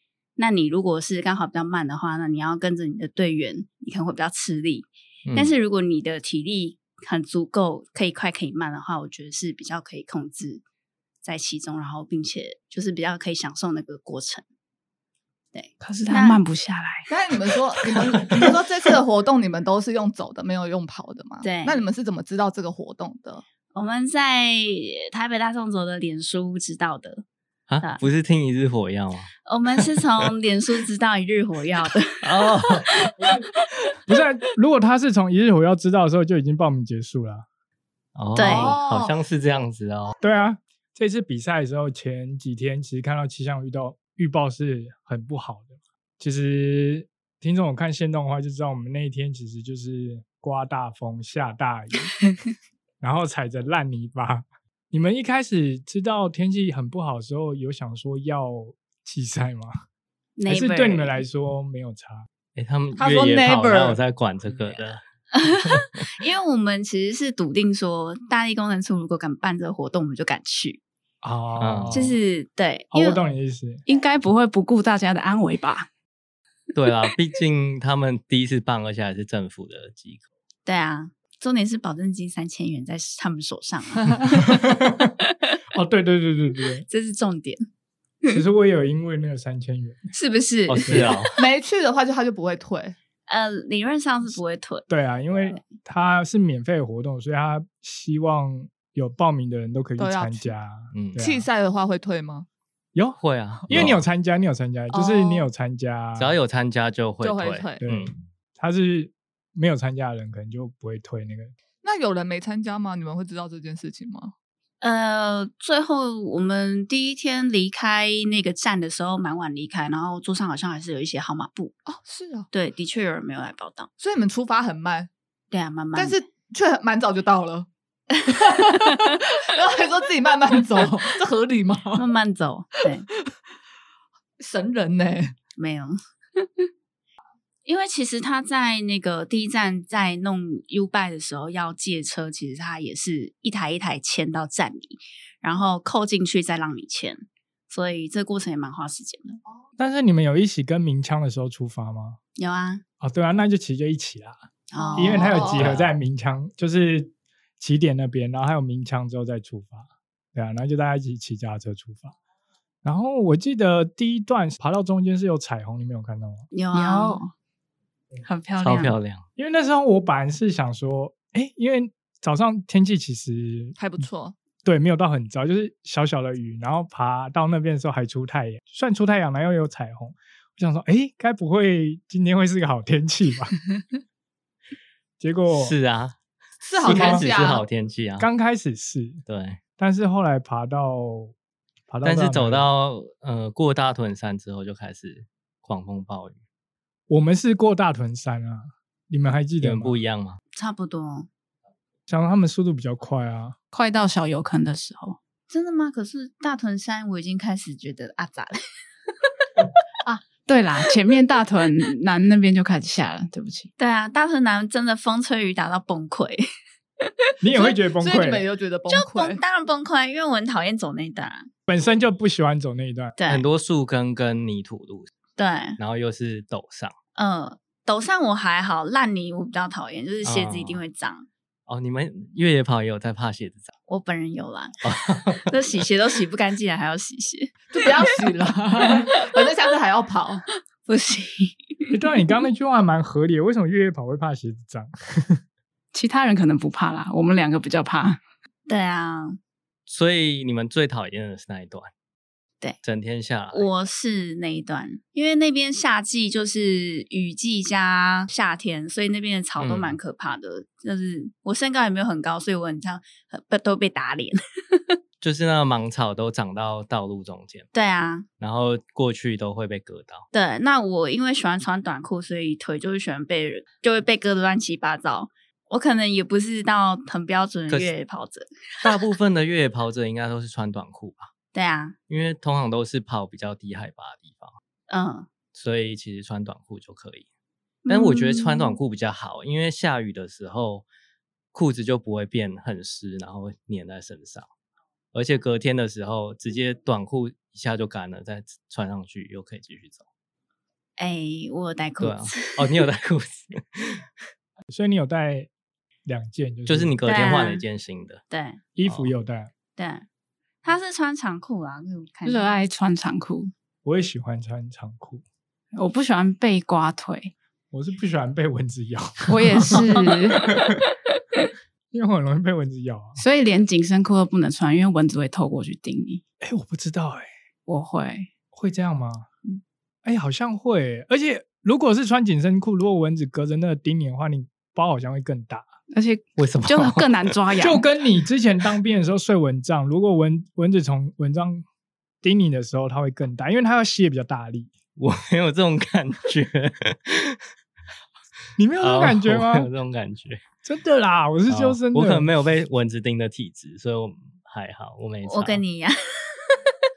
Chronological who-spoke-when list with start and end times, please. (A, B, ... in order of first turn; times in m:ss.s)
0:00.4-0:10.6 A
0:05.2-0:05.5 B
0:11.2-0:14.4 A
0:15.5-0:16.4 A
0:15.8-0:17.1 C
0:17.1-0:23.4 D
0:21.4-0:21.8 A
0:23.7-0:27.2 A
0:27.7-0:29.3 B
0:29.4-0:33.1 A
0:32.2-0:32.9 B
0:33.2-0:33.4 E
0:34.1-0:37.4 E
0:38.1-0:40.1 B
0:38.3-0:38.8 A
0:38.4-0:39.1 D
0:40.2-0:52.1 E
0:53.0-0:59.8 E
1:00.4-1:01.2 A
1:00.5-1:02.3 E
1:02.6-1:05.0 B
1:03.0-1:04.0 D
1:05.4-1:10.8 A
1:11.2-1:12.2 E
1:11.6-1:12.0 B
1:11.9-1:13.2 A
1:12.9-1:13.8 E
1:13.9-1:15.9 C
1:16.7-1:20.2 B
1:20.6-1:24.5 A
1:24.5-1:25.1 E
1:25.7-1:26.8 E
1:26.9-1:27.6 A
1:28.3-1:30.1 E
1:30.1-1:31.2 A
1:30.7-1:31.4 B
1:30.9-1:31.1 E
1:31.4-1:33.0 D
1:33.3-1:35.6 A
1:34.9-1:41.5 E
1:40.0-1:40.5 D
1:40.9-1:41.3 B
1:41.2-1:42.4 D
1:42.9-1:46.4 E
1:43.2-1:44.0 B
1:44.9-1:45.5 A
1:46.2-1:48.1 B
1:47.2-1:47.8 D
1:47.8-1:51.5 E
1:51.8-1:54.3 D
1:54.8-2:01.8 A
2:01.8-2:02.5 D
2:02.5-2:03.9 A
2:04.0-2:05.1 D
2:05.5-2:06.2 A
2:05.9-2:07.7 D
2:08.3-2:09.1 A
2:08.3-2:12.0 D
2:12.0-2:13.0 A
2:14.4-2:15.3 D
2:15.6-2:16.0 A
2:17.6-2:29.4 A
2:29.8-2:32.2 E
2:32.4-2:32.8 A
2:33.0-2:34.4 E
2:34.7-2:35.5 A
2:34.8-2:35.7 D
2:34.9-2:42.1 E
2:35.5-2:36.0 B
2:42.8-2:46.4 E
2:46.5-2:47.2 A
2:46.7-2:47.3 C
2:48.2-2:48.9 C
2:48.6-2:49.2 B
2:49.4-2:53.8 E
2:53.8-2:54.3 D
2:54.6-3:03.6 E
3:05.2-3:05.7 E
3:05.5-3:06.2 B
3:06.6-3:07.6 D
3:06.8-3:08.3 B
3:06.8-3:07.3 E
3:08.2-3:09.2 E
3:09.3-3:09.6 B
3:09.8-3:11.3 E
3:11.9-3:12.6 E
3:12.0-3:16.4 B
3:17.1-3:20.0 E
3:19.6-3:20.4 B
3:20.5-3:21.3 A
3:22.1-3:23.6 E
3:23.7-3:25.2 C
3:25.5-3:28.6 A
3:30.0-3:33.7 C
3:33.8-3:36.4 A
3:37.4-3:38.4 E
3:37.5-3:39.4 D
3:38.9-3:41.5 A
3:41.7-3:43.2 E
3:43.2-3:43.4 A
3:43.3-3:45.1 B
3:45.4-3:45.8 A
3:45.8-3:46.9 B
3:47.2-3:51.2 A
3:50.2-3:50.8 B
3:51.7-3:53.7 B
3:53.9-3:57.7 A
3:54.8-3:55.6 B
3:57.7-4:00.4 D
3:58.8-3:59.4 A
4:00.8-4:01.8 A
4:01.9-4:05.4 E
4:05.9-4:08.2 C
4:08.7-4:09.4 A
4:09.9-4:11.9 B
4:12.8-4:13.7 B
4:13.5-4:25.0 A
4:19.6-4:20.0 B
4:25.2-4:27.7 B
4:27.7-4:28.3 A
4:28.4-4:30.2 B
4:30.3-4:39.0 A
4:38.8-4:41.3 B
4:41.5-4:41.9 A
4:42.1-4:44.5 B
4:44.9-4:45.3 A
4:45.5-4:47.2 B
4:47.8-4:48.8 A
4:47.9-4:50.8 B
4:51.5-4:54.5 B
4:55.1-5:00.0 B
5:01.0-5:02.8 A
5:02.0-5:04.0 B
5:04.7-5:05.5 E
5:06.0-5:06.9 E
5:06.6-5:08.2 B
5:07.0-5:07.6 A
5:08.3-5:08.6 A
5:08.8-5:09.5 E
5:08.8-5:09.1 B
5:09.8-5:10.0 A
5:10.6-5:12.6 A
5:12.2-5:13.5 C
5:13.8-5:15.2 E
5:15.8-5:17.3 C
5:17.7-5:20.8 E
5:19.3-5:20.6 C
5:21.9-5:23.2 E
5:23.2-5:26.2 C
5:26.4-5:27.3 E
5:27.7-5:28.3 C
5:28.5-5:29.2 E
5:30.0-5:35.7 E
5:35.9-5:37.8 C
5:36.4-5:37.4 B
5:37.6-5:41.6 E
5:42.2-5:44.7 E
5:45.0-5:47.4 B
5:48.6-5:49.7 E
5:48.8-5:50.4 B
5:50.6-5:52.3 E
5:51.5-5:55.6 B
5:55.2-5:56.7 A